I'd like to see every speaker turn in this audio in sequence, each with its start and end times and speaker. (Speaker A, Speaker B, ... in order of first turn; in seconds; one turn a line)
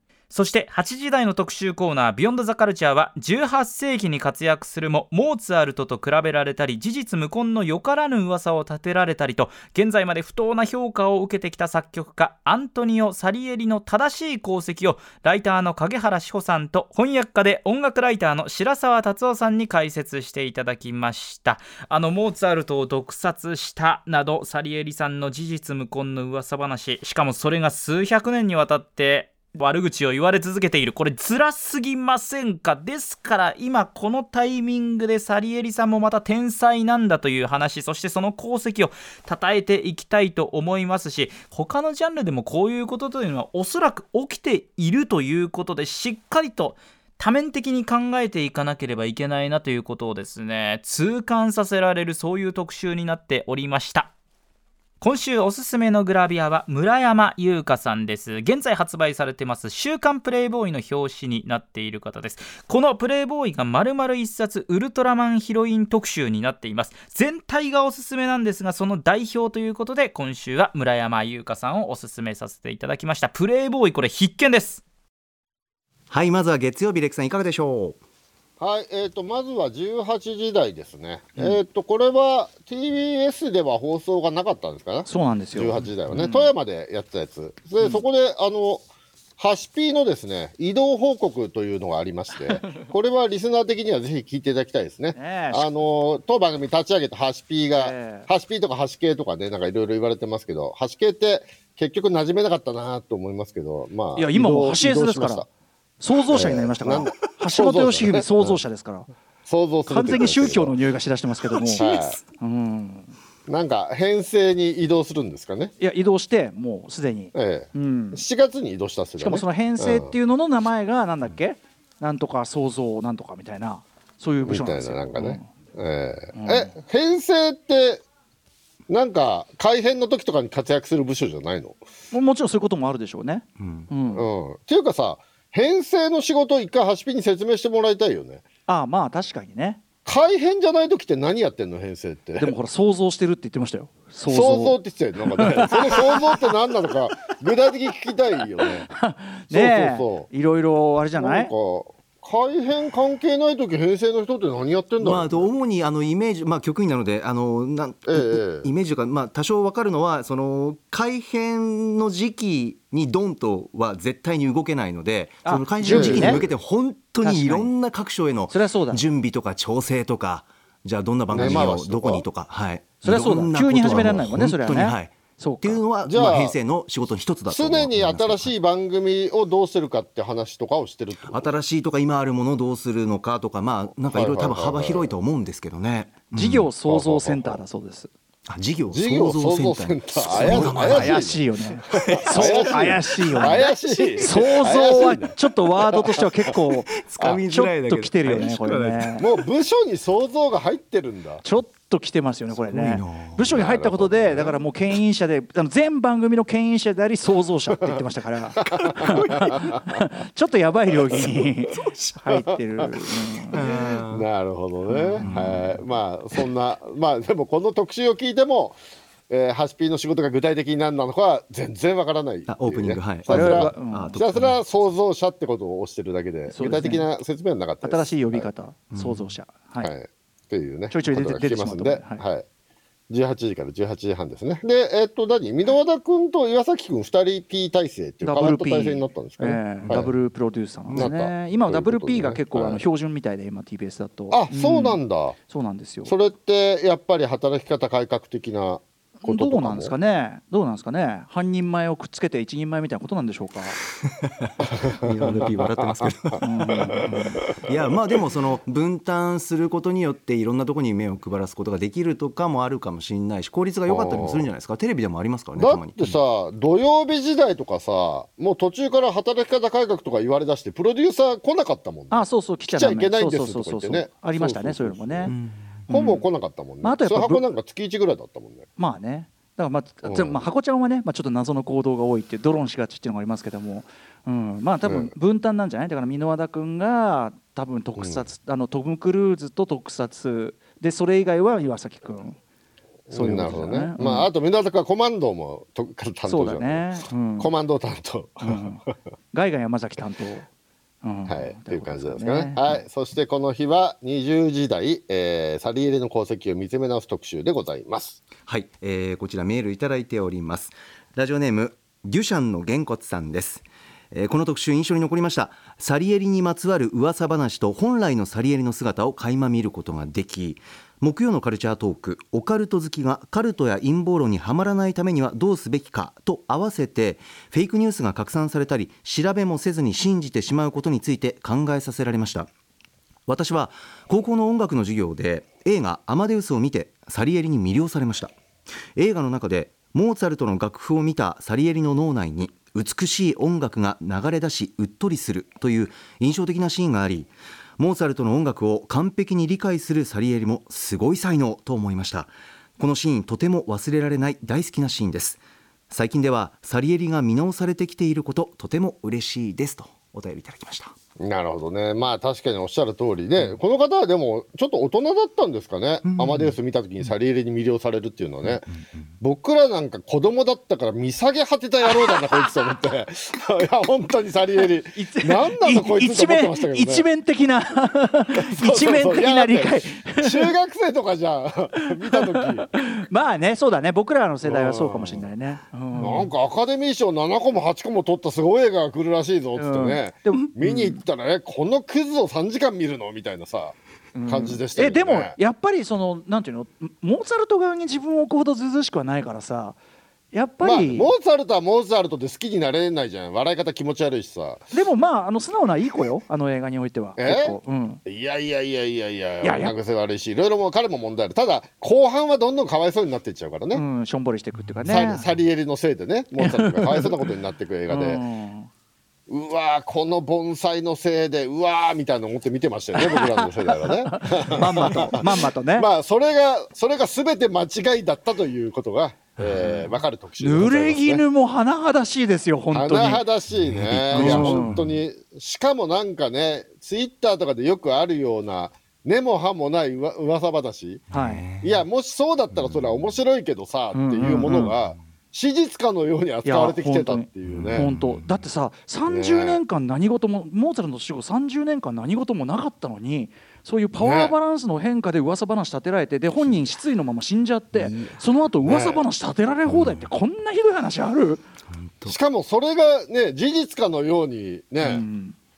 Speaker A: 0.3-54.1
Speaker A: 55.0-74.8
Speaker B: 76.1-78.0
Speaker C: 78.6-88.8
Speaker D: 85.0-86.5
Speaker C: 89.4-105.5
Speaker D: 95.1-95.8
Speaker D: 97.7-98.3
Speaker D: 104.2-105.4
Speaker D: 106.0-109.1
Speaker C: 106.3-108.6
Speaker C: 109.5-110.8
Speaker D: 109.9-111.8
Speaker B: 111.5-112.2
Speaker C: 111.8-112.2
Speaker D: 112.4-113.1
Speaker C: 113.5-115.7
Speaker D: 115.8-118.2
Speaker C: 117.3-120.1
Speaker D: 119.2-125.5
Speaker C: 124.4-128.0
Speaker D: 126.3-126.7
Speaker C: 128.9-131.8
Speaker D: 132.1-134.2
Speaker B: 133.6-133.9
Speaker C: 134.1-138.4
Speaker D: 138.7-139.8
Speaker C: 140.0-142.5
Speaker D: 142.4-144.8
Speaker C: 144.3-148.9
Speaker D: 145.3-146.5
Speaker D: 148.9-151.5
Speaker C: 149.5-150.3
Speaker C: 151.2-155.5
Speaker B: 155.0-178.5
Speaker C: 158.1-158.7
Speaker D: 165.4-166.4
Speaker C: 165.8-166.5
Speaker D: 167.2-167.7
Speaker D: 168.5-169.0
Speaker C: 171.3-172.2
Speaker D: 171.3-171.6
Speaker D: 173.0-175.8
Speaker C: 176.1-176.6
Speaker C: 177.5-181.5
Speaker B: 181.3-186.7
Speaker C: 184.1-185.1
Speaker D: 186.3-188.1
Speaker C: 186.9-187.6
Speaker B: 188.5-191.3
Speaker C: 188.9-196.1
Speaker D: 190.3-193.7
Speaker B: 191.9-194.4
Speaker D: 194.2-199.2
Speaker B: 197.0-199.4
Speaker C: 199.2-201.4
Speaker D: 201.4-213.6
Speaker B: 202.5-203.5
Speaker C: 203.5-204.5
Speaker C: 208.6-209.8
Speaker B: 209.1-209.7
Speaker B: 211.7-212.3
Speaker B: 213.5-214.2
Speaker C: 213.6-218.8
Speaker D: 214.9-215.3
Speaker B: 215.2-215.7
Speaker C: 219.3-228.5
Speaker B: 222.5-224.6
Speaker D: 223.3-224.2
Speaker D: 226.5-227.1
Speaker D: 227.8-229.9
Speaker B: 228.9-229.3
Speaker C: 229.8-232.4
Speaker D: 230.9-232.2
Speaker C: 233.1-240.1
Speaker D: 238.2-246.1
Speaker B: 240.9-241.1
Speaker C: 240.9-242.8
Speaker C: 244.3-245.3
Speaker C: 246.0-249.9
Speaker D: 249.2-253.8
Speaker B: 254.0-266.2
Speaker C: 255.0-256.1
Speaker D: 256.4-257.4
Speaker C: 263.9-264.4
Speaker C: 265.6-275.3
Speaker D: 272.1-275.3
Speaker B: 275.3-275.8
Speaker D: 275.9-276.2
Speaker C: 275.9-278.7
Speaker D: 276.8-277.4
Speaker D: 278.8-292.4
Speaker C: 280.0-280.4
Speaker C: 284.8-285.1
Speaker C: 288.0-288.2
Speaker C: 293.1-296.9
Speaker D: 293.1-294.3
Speaker D: 296.2-297.5
Speaker C: 297.4-298.6
Speaker D: 298.4-300.4
Speaker D: 301.0-302.8
Speaker C: 301.3-308.2
Speaker B: 308.4-332.5
Speaker B: 333.3-338.3
Speaker B: 338.9-360.9
Speaker C: 361.2-368.6
Speaker B: 366.0-366.6
Speaker B: 368.4-368.8
Speaker C: 369.2-377.1
Speaker D: 374.9-380.5
Speaker C: 378.4-382.7
Speaker D: 382.1-386.3
Speaker C: 384.4-385.3
Speaker C: 385.9-395.4
Speaker D: 389.6-391.0
Speaker D: 394.1-399.8
Speaker D: 400.3-401.1
Speaker C: 400.6-404.6
Speaker D: 404.7-408.0
Speaker C: 407.2-413.8
Speaker D: 409.4-409.7
Speaker D: 413.7-415.2
Speaker C: 414.9-418.2
Speaker D: 416.4-417.1
Speaker D: 417.9-418.7
Speaker C: 419.3-431.2
Speaker D: 423.0-425.9
Speaker B: 429.4-429.9
Speaker D: 430.4-433.2
Speaker C: 432.7-441.1
Speaker B: 433.5-435.0
Speaker D: 434.1-434.8
Speaker D: 441.1-441.4
Speaker B: 441.1-441.8
Speaker C: 441.6-447.9
Speaker B: 442.5-443.1
Speaker D: 443.9-444.7
Speaker D: 446.4-461.4
Speaker B: 447.4-448.4
Speaker C: 449.1-449.6
Speaker C: 454.0-454.3
Speaker B: 457.7-458.1
Speaker C: 458.6-459.0
Speaker B: 459.7-460.1
Speaker B: 461.7-462.1
Speaker C: 462.1-465.0
Speaker D: 464.8-465.4